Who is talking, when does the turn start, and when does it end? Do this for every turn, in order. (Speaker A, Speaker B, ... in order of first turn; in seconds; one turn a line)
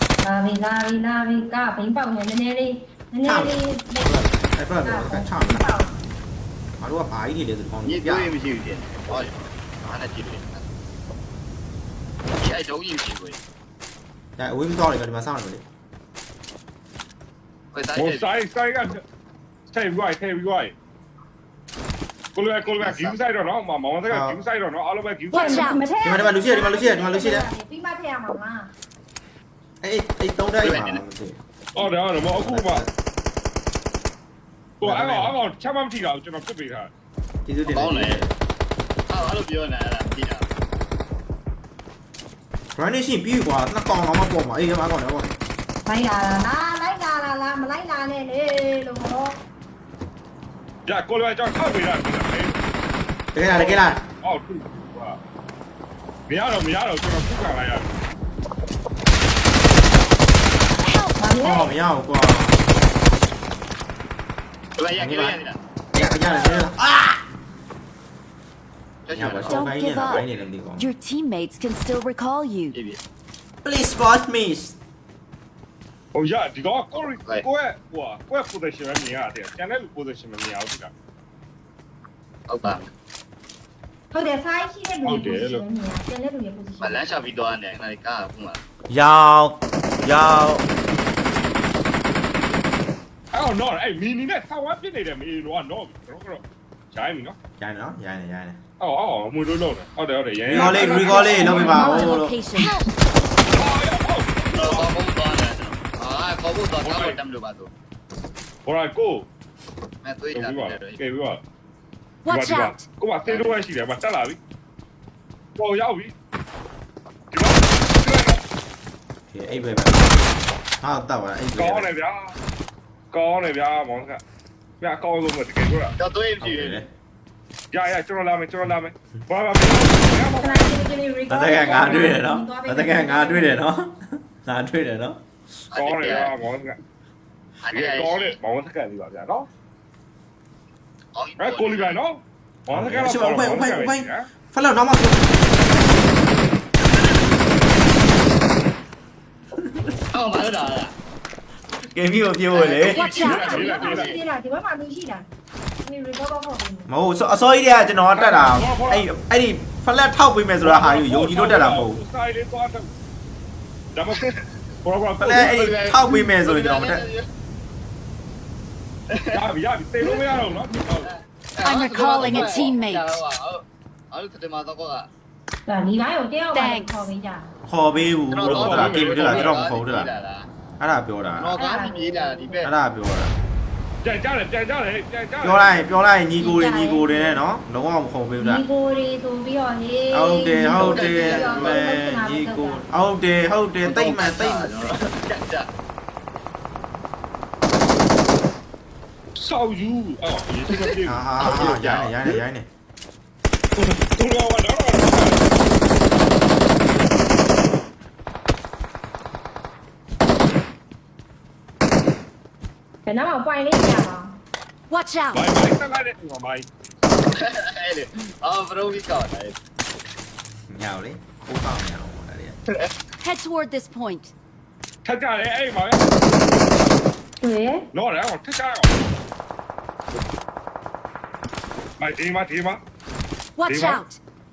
Speaker A: 0.2-4.1
Speaker B: 3.2-5.7
Speaker A: 4.8-6.0
Speaker B: 6.8-8.3
Speaker C: 7.8-10.7
Speaker C: 12.4-13.4
Speaker B: 14.4-15.6
Speaker C: 17.7-18.3
Speaker D: 17.9-19.0
Speaker D: 19.7-20.7
Speaker D: 22.3-25.8
Speaker C: 22.7-23.2
Speaker B: 24.1-24.4
Speaker E: 25.3-25.8
Speaker A: 25.3-28.7
Speaker B: 26.0-27.5
Speaker B: 29.8-31.4
Speaker C: 30.6-31.0
Speaker D: 31.7-32.8
Speaker B: 32.3-32.9
Speaker D: 34.8-36.9
Speaker B: 34.8-35.4
Speaker B: 37.5-38.3
Speaker C: 37.6-38.2
Speaker C: 39.1-40.5
Speaker B: 42.7-45.4
Speaker A: 45.9-49.4
Speaker D: 50.9-52.7
Speaker B: 53.3-54.0
Speaker D: 53.5-55.2
Speaker D: 56.3-58.0
Speaker E: 60.8-61.2
Speaker A: 61.2-61.7
Speaker B: 61.4-62.6
Speaker C: 64.8-66.7
Speaker B: 65.0-65.4
Speaker B: 65.9-67.2
Speaker C: 69.0-70.2
Speaker B: 69.1-70.9
Speaker E: 69.3-72.8
Speaker C: 72.7-73.0
Speaker B: 73.6-74.8
Speaker D: 76.1-80.9
Speaker C: 82.5-82.9
Speaker A: 84.1-87.1
Speaker D: 85.0-85.6
Speaker C: 86.8-88.6
Speaker B: 88.9-90.7
Speaker D: 93.3-97.3
Speaker B: 97.6-98.6
Speaker D: 98.8-101.8
Speaker B: 100.5-102.3
Speaker A: 100.6-102.6
Speaker E: 101.3-102.9
Speaker D: 103.5-105.0
Speaker C: 104.5-107.7
Speaker D: 106.8-107.2
Speaker D: 108.7-109.2
Speaker C: 110.0-111.0
Speaker D: 110.3-111.4
Speaker E: 112.2-112.8
Speaker D: 112.2-114.4
Speaker C: 113.3-113.6
Speaker D: 115.6-116.1
Speaker D: 117.3-118.4
Speaker B: 119.3-121.9
Speaker D: 121.5-122.3
Speaker D: 123.1-124.2
Speaker D: 124.8-126.0
Speaker C: 126.0-126.8
Speaker B: 126.4-126.9
Speaker D: 127.7-130.9
Speaker A: 130.4-133.6
Speaker B: 131.3-135.2
Speaker C: 135.7-136.3
Speaker D: 135.7-136.8
Speaker C: 137.6-138.3
Speaker D: 137.7-139.5
Speaker C: 141.1-142.0
Speaker D: 141.4-144.3
Speaker B: 142.7-145.5
Speaker C: 150.1-150.9
Speaker B: 151.8-153.1
Speaker C: 152.5-154.2
Speaker E: 152.8-153.8
Speaker A: 153.1-155.3
Speaker D: 153.2-154.2
Speaker A: 155.8-156.9
Speaker B: 156.9-162.0
Speaker D: 158.1-159.1
Speaker D: 160.6-162.9
Speaker D: 163.9-164.2
Speaker C: 164.1-164.4
Speaker D: 164.8-165.7
Speaker B: 165.2-167.1
Speaker C: 165.4-167.3
Speaker C: 169.1-169.4
Speaker D: 169.3-171.1
Speaker C: 171.0-175.1
Speaker E: 171.6-173.2
Speaker A: 175.7-177.5
Speaker E: 176.5-177.1
Speaker B: 177.6-180.1
Speaker C: 178.3-180.5
Speaker D: 178.4-179.6
Speaker B: 180.8-181.6
Speaker C: 181.4-182.7
Speaker A: 181.6-182.7
Speaker B: 182.6-183.3
Speaker D: 184.0-185.8
Speaker B: 185.4-188.6
Speaker A: 186.4-187.4
Speaker A: 188.4-192.8
Speaker B: 190.1-194.7
Speaker C: 190.7-191.8
Speaker C: 193.8-195.7
Speaker D: 199.3-201.9
Speaker C: 200.7-202.4
Speaker B: 201.0-202.7
Speaker D: 203.8-205.4
Speaker A: 213.1-214.4
Speaker E: 214.9-215.4
Speaker D: 215.3-216.7
Speaker C: 217.3-219.6
Speaker B: 220.7-222.6
Speaker C: 222.7-222.9
Speaker E: 223.2-224.3
Speaker D: 225.0-226.1
Speaker A: 227.4-227.9
Speaker D: 227.9-229.1
Speaker D: 232.0-232.8
Speaker E: 233.6-234.2
Speaker D: 233.7-234.0